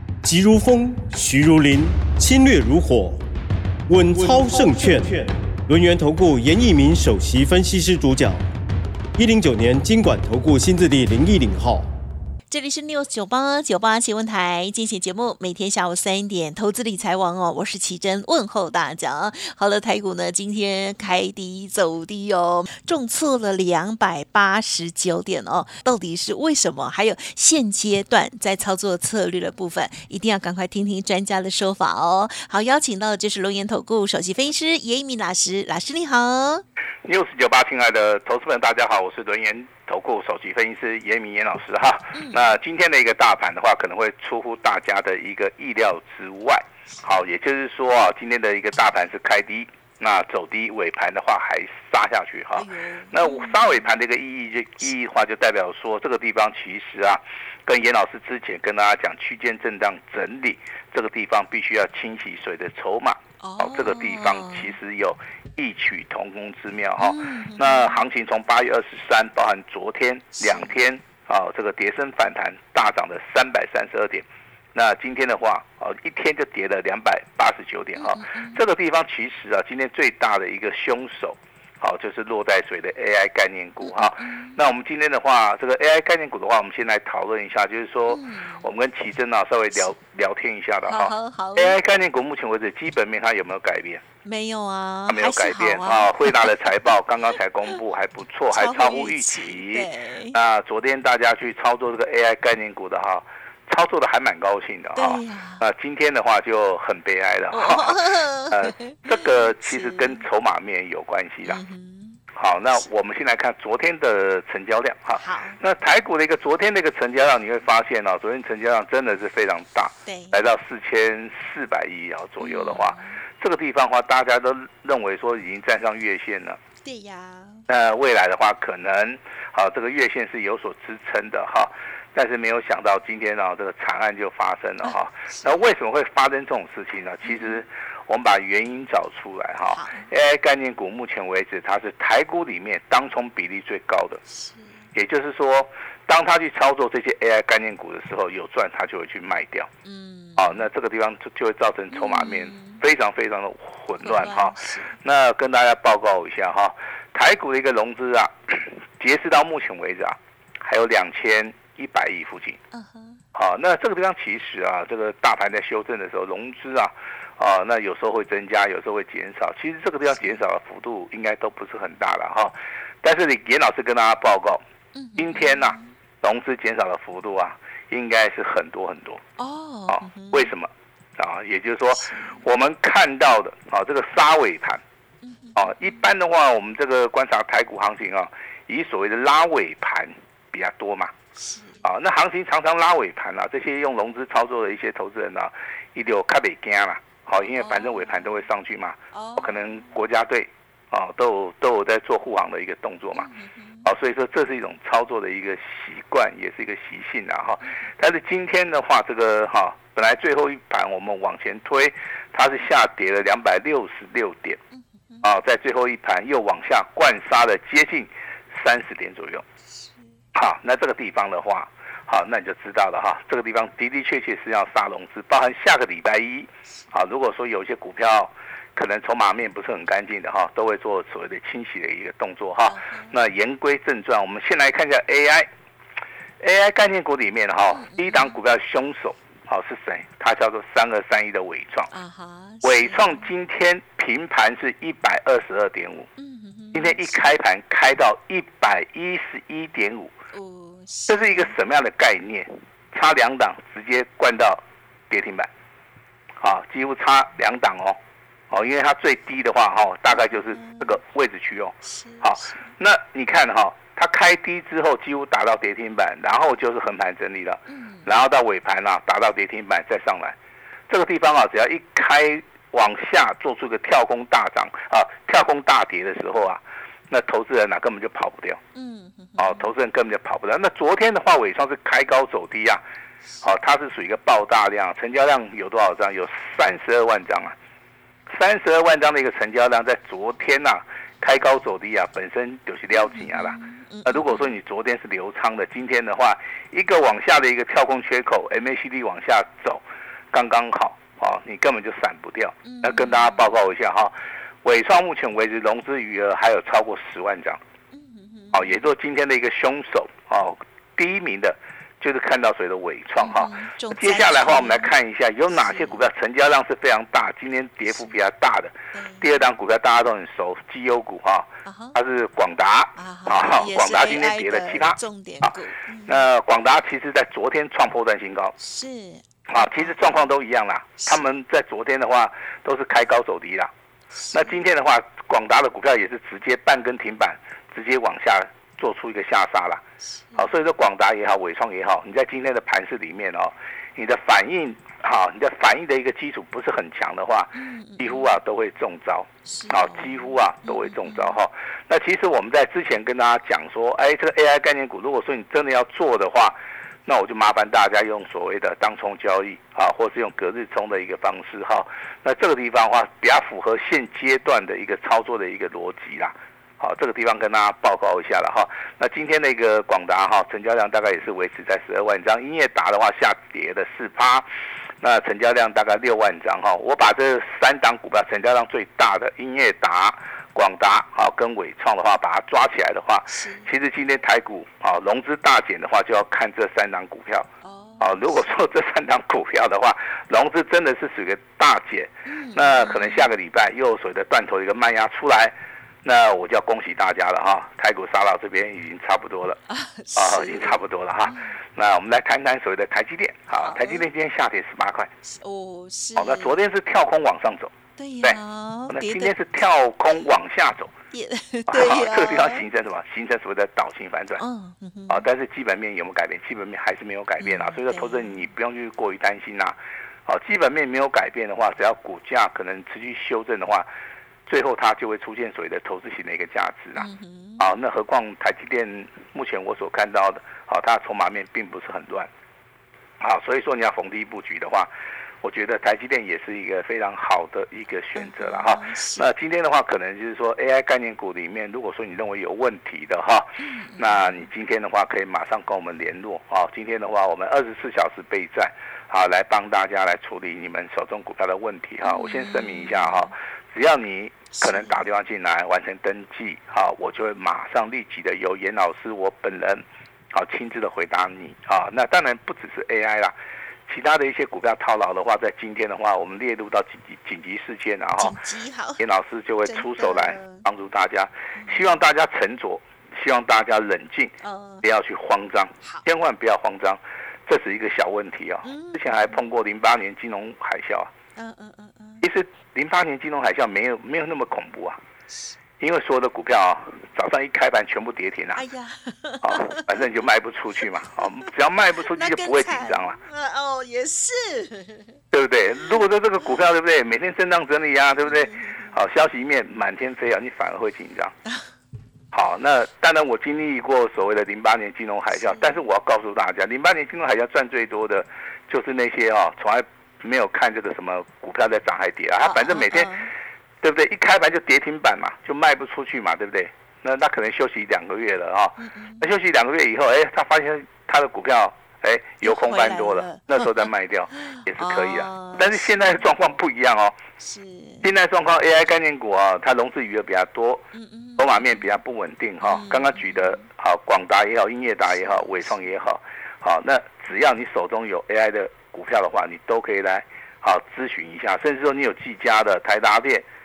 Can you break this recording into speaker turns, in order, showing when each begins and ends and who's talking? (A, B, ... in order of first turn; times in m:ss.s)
0:00.2-0:03.2 A
0:03.9-0:08.4 A
0:09.2-0:11.9 A
0:12.5-0:36.6 B
0:37.0-1:34.0 C
0:42.1-0:42.5 B
0:52.5-0:53.9 B
1:03.4-1:04.8 B
1:07.0-1:08.0 B
1:10.3-1:10.7 B
1:17.9-1:18.6 B
1:23.8-1:24.6 B
1:28.1-1:28.6 B
1:30.8-1:31.8 B
1:34.2-1:36.5 B
1:35.1-1:51.6 C
1:38.5-1:40.4 B
1:44.9-1:45.6 B
1:47.5-1:50.2 B
1:51.4-1:52.2 B
1:52.3-2:06.6 C
1:55.2-1:55.6 B
2:00.0-2:00.4 B
2:02.4-2:03.2 B
2:06.8-2:07.6 B
2:07.7-2:24.2 C
2:14.8-2:15.6 B
2:17.2-2:17.6 B
2:19.7-2:20.1 B
2:24.3-2:24.8 B
2:24.9-2:29.7 C
2:29.8-2:30.7 B
2:30.4-2:42.6 C
2:31.9-2:32.8 B
2:34.0-2:35.0 B
2:42.7-2:43.2 B
2:43.3-2:54.6 C
2:50.1-2:50.4 B
2:54.9-2:55.9 B
2:55.2-2:59.2 C
2:59.4-3:00.5 B
2:59.9-3:04.8 C
3:02.0-3:02.4 B
3:05.2-3:06.0 B
3:05.6-3:11.1 C
3:11.3-3:11.8 B
3:11.8-3:23.3 C
3:17.4-3:18.3 B
3:19.1-3:19.9 B
3:23.1-3:23.9 B
3:23.8-3:34.6 C
3:34.7-3:35.2 B
3:35.2-3:39.4 C
3:39.7-3:40.1 B
3:40.3-3:55.5 C
3:52.6-3:53.2 B
3:56.4-4:01.9 C
3:57.7-3:58.4 B
4:01.9-4:03.3 B
4:02.6-4:06.1 C
4:06.2-4:07.2 B
4:06.7-4:10.1 C
4:10.3-4:11.6 B
4:11.1-4:15.5 C
4:16.4-4:18.0 C
4:18.5-4:30.4 C
4:20.1-4:21.0 B
4:21.8-4:22.7 B
4:27.7-4:28.1 B
4:30.9-4:38.6 C
4:38.7-4:39.7 B
4:39.4-4:42.8 C
4:43.4-4:47.5 C
4:48.3-5:07.6 C
4:53.0-4:54.5 B
5:02.6-5:03.5 B
5:07.9-5:08.8 B
5:08.5-5:25.6 C
5:13.2-5:14.9 B
5:15.5-5:16.0 B
5:18.9-5:19.5 B
5:21.6-5:22.0 B
5:23.0-5:26.2 B
5:26.1-5:28.5 C
5:28.6-5:30.3 B
5:29.5-5:33.7 C
5:34.2-5:34.6 B
5:34.3-5:39.8 C
5:40.0-5:40.5 B
5:40.4-6:14.5 C
5:47.5-5:48.3 B
5:49.4-5:51.4 B
6:15.0-6:27.5 C
6:23.3-6:23.7 B
6:27.6-6:28.4 B
6:28.0-6:39.6 C
6:32.2-6:33.3 B
6:39.7-6:41.6 B
6:40.1-6:45.1 C
6:43.6-6:44.1 B
6:45.2-6:46.6 B
6:46.2-6:50.9 C
6:48.0-6:49.4 B
6:51.1-6:52.6 B
6:51.7-6:54.4 C
6:54.4-6:55.2 B
6:55.1-7:03.9 C
6:57.4-6:58.4 B
7:04.5-7:07.0 C
7:07.0-7:07.6 B
7:07.6-7:12.3 C
7:13.2-7:14.9 C
7:15.4-7:43.3 C
7:18.2-7:19.3 B
7:23.6-7:24.5 B
7:32.0-7:33.3 B
7:34.5-7:35.0 B
7:43.9-7:48.4 C
7:48.2-7:49.0 B
7:49.0-7:54.3 C
7:49.6-7:50.6 B
7:51.6-7:52.0 B
7:54.4-7:54.8 B
7:54.8-8:01.1 C
7:58.6-7:59.4 B
8:01.4-8:02.2 B
8:02.2-8:05.0 C
8:05.8-8:08.6 C
8:08.6-8:10.2 B
8:09.4-8:13.2 C
8:11.2-8:11.5 B
8:12.1-8:15.2 B
8:15.3-8:21.3 C
8:15.8-8:16.6 B
8:18.2-8:19.0 B
8:22.3-8:33.1 C
8:25.3-8:25.8 B
8:32.4-8:33.3 B
8:33.8-8:47.1 C
8:38.8-8:39.2 B
8:42.4-8:46.3 B
8:47.4-8:48.1 B
8:48.0-8:50.8 C
8:50.9-8:51.9 B
8:51.4-9:03.4 C
8:52.6-8:53.6 B
8:55.0-8:55.8 B